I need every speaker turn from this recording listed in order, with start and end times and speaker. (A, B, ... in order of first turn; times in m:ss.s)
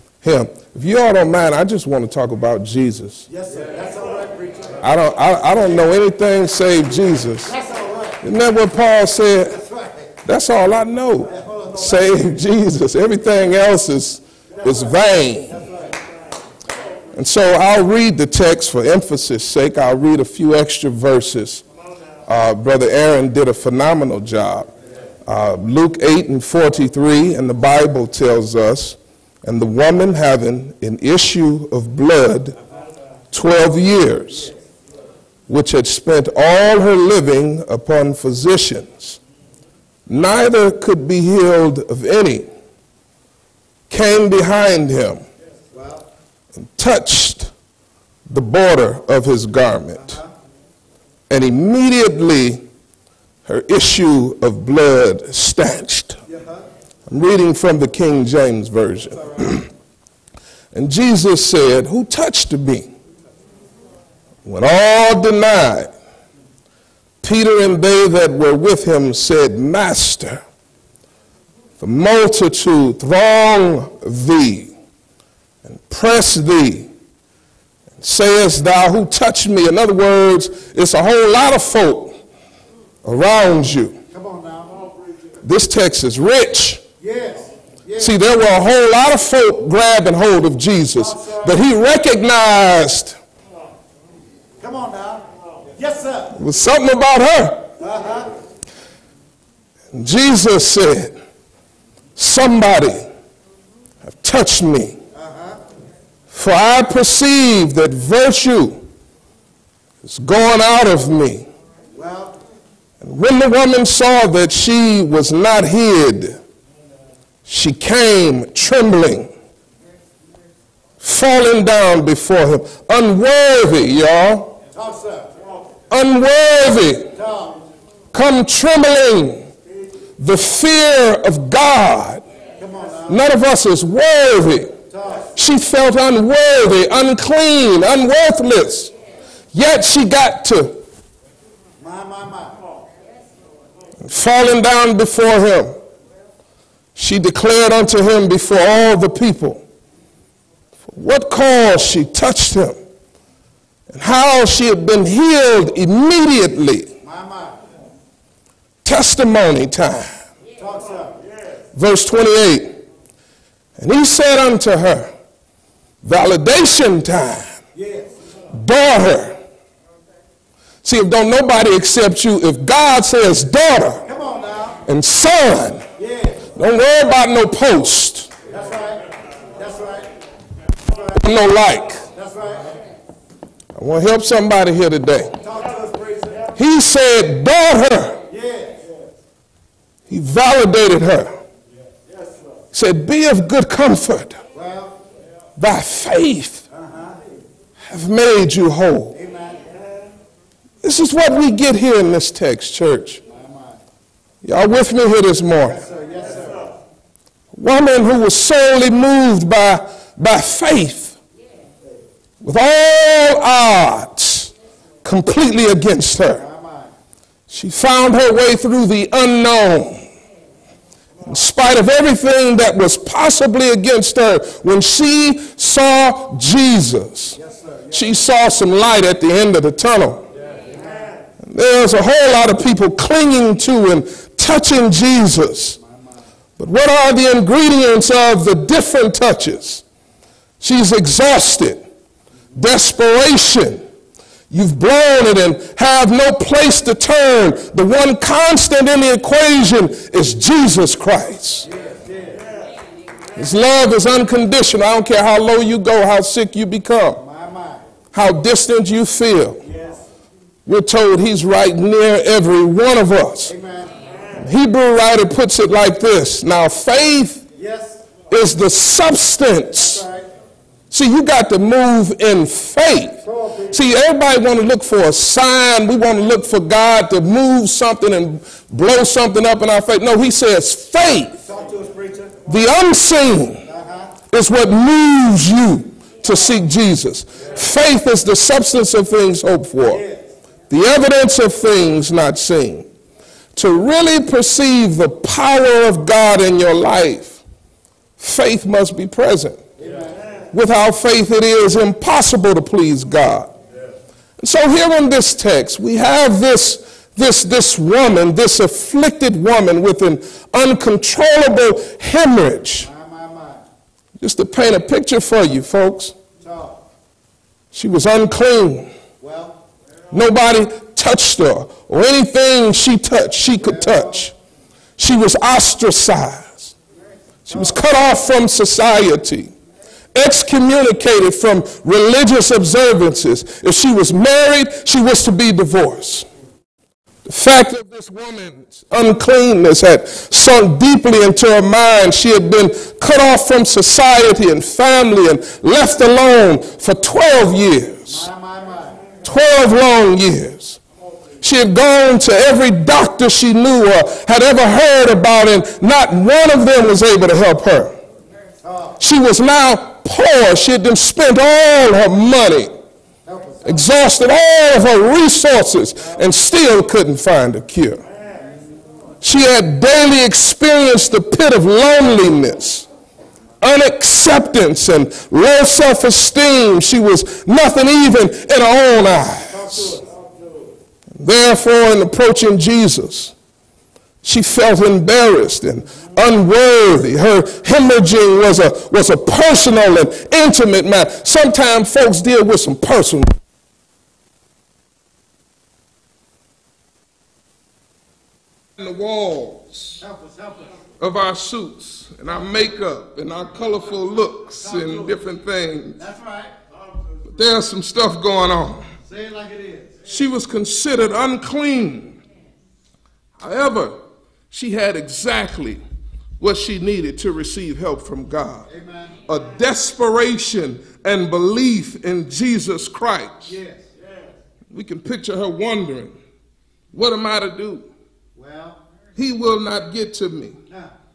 0:00.2-0:03.3 A
0:03.3-0:04.8 B
0:04.8-0:07.5 A
0:07.4-0:08.2 B
0:08.2-0:09.6 A
0:09.5-0:10.1 B
0:10.3-0:15.7 A
0:11.3-0:12.2 B
0:14.6-0:14.8 B
0:15.5-0:16.0 B
0:17.2-0:21.6 A
0:22.3-0:24.7 A
0:25.3-0:32.6 A
0:33.3-0:34.5 A
0:35.5-0:39.2 A
0:40.1-0:42.5 A
0:43.9-0:45.2 A
0:45.7-0:46.1 B
0:46.6-0:47.5 A
0:48.3-0:50.2 A
0:49.9-0:50.3 B
0:51.3-0:52.6 A
0:53.4-0:56.2 A
0:56.3-0:56.7 B
0:57.1-0:59.7 A
1:00.7-1:02.9 A
1:04.4-1:05.9 A
1:07.2-1:10.4 A
1:11.8-1:14.7 A
1:15.6-1:16.9 A
1:18.0-1:22.2 A
1:23.0-1:24.0 A
1:24.1-1:24.8 B
1:25.4-1:26.8 A
1:27.0-1:28.2 B
1:28.0-1:33.2 A
1:31.0-1:31.6 B
1:34.6-1:36.4 B
1:36.4-1:37.7 A
1:37.8-1:38.3 B
1:39.9-1:41.2 A
1:42.2-1:43.1 A
1:44.1-1:45.0 A
1:45.1-1:45.6 B
1:46.3-1:48.8 A
1:50.0-1:51.5 A
1:51.9-1:52.4 B
1:53.0-1:56.4 A
1:57.5-1:59.3 A
2:01.0-2:04.5 A
2:04.7-2:05.3 B
2:05.9-2:07.1 A
2:07.1-2:07.6 B
2:08.1-2:09.5 A
2:10.2-2:12.2 A
2:12.6-2:13.2 B
2:13.1-2:14.7 A
2:14.9-2:15.3 B
2:15.4-2:18.9 A
2:19.5-2:20.8 A
2:21.8-2:22.6 B
2:24.0-2:25.8 A
2:27.0-2:29.6 A
2:30.9-2:32.8 A
2:33.9-2:36.9 A
2:37.0-2:37.6 B
2:38.8-2:40.1 A
2:40.6-2:41.2 B
2:41.7-2:42.7 A
2:43.8-2:45.1 A
2:46.0-2:47.5 A
2:47.7-2:48.1 B
2:48.5-2:49.4 A
2:50.8-2:54.1 A
2:54.1-2:54.8 B
2:54.9-2:55.8 A
2:56.0-2:56.4 B
2:56.6-2:58.3 A
2:58.5-2:59.0 B
2:59.6-3:00.1 B
3:00.9-3:01.2 B
3:01.2-3:02.1 A
3:02.1-3:02.7 B
3:03.8-3:05.4 A
3:05.4-3:06.5 B
3:06.6-3:08.2 A
3:08.3-3:08.9 B
3:10.1-3:11.4 A
3:12.7-3:14.4 A
3:14.5-3:15.0 B
3:15.6-3:16.6 A
3:16.7-3:17.2 B
3:17.8-3:19.2 A
3:19.1-3:19.7 B
3:20.8-3:23.2 A
3:23.3-3:23.8 B
3:24.4-3:25.8 A
3:25.7-3:26.7 B
3:27.5-3:31.2 A
3:32.4-3:34.5 A
3:35.0-3:36.5 A
3:36.3-3:36.9 B
3:37.5-3:40.0 A
3:41.3-3:47.4 A
3:47.3-3:48.1 B
3:47.9-3:50.2 A
3:50.7-3:51.1 B
3:51.5-3:55.8 A
3:56.6-3:59.8 A
4:00.6-4:01.8 A
4:02.6-4:03.8 A
4:04.5-4:11.7 A
4:11.6-4:12.5 B
4:13.4-4:17.2 A
4:17.2-4:17.8 B
4:18.1-4:19.6 A
4:19.6-4:20.0 B
4:20.7-4:23.5 A
4:23.5-4:24.0 B
4:24.4-4:27.4 A
4:27.6-4:28.1 B
4:28.3-4:30.0 A
4:29.7-4:30.3 B
4:30.9-4:41.4 A
4:33.2-4:33.8 B
4:41.4-4:42.4 B
4:42.5-4:43.7 A
4:43.7-4:44.1 B
4:44.3-4:50.0 A
4:49.8-4:50.3 B
4:50.7-4:52.9 A
4:53.6-4:57.4 A
4:58.2-4:59.6 A
4:59.8-5:00.2 B
5:00.5-5:03.5 A
5:04.4-5:12.9 A
5:12.8-5:13.6 B
5:14.2-5:16.2 A
5:16.4-5:16.8 B
5:17.7-5:18.9 A
5:19.2-5:19.6 B
5:20.1-5:24.3 A
5:23.6-5:24.3 B
5:25.0-5:26.7 A
5:27.5-5:29.5 A
5:27.5-5:27.8 B
5:30.1-5:36.3 A
5:37.3-5:48.3 A
5:48.1-5:49.0 B
5:49.2-5:50.8 A
5:51.4-5:58.0 A
5:58.6-5:59.0 B
5:59.0-6:02.7 A
6:03.2-6:03.8 B
6:03.6-6:08.0 A
6:09.2-6:12.9 A
6:13.6-6:20.0 A
6:19.6-6:20.0 B
6:21.2-6:23.3 A
6:24.2-6:33.3 A
6:38.8-6:40.0 A
6:40.0-6:40.8 B
6:41.0-6:46.0 A
6:44.6-6:45.2 B
6:46.0-6:46.5 B
6:47.4-6:48.9 A
6:49.0-6:50.0 B
6:50.1-6:52.2 A
6:53.4-6:54.0 A
6:54.5-6:55.8 A
6:56.4-6:58.7 A
6:58.7-6:59.3 B
6:59.3-7:03.6 A
7:03.5-7:03.9 B
7:04.7-7:06.2 A
7:06.9-7:07.9 A
7:08.4-7:08.8 B
7:09.2-7:10.6 A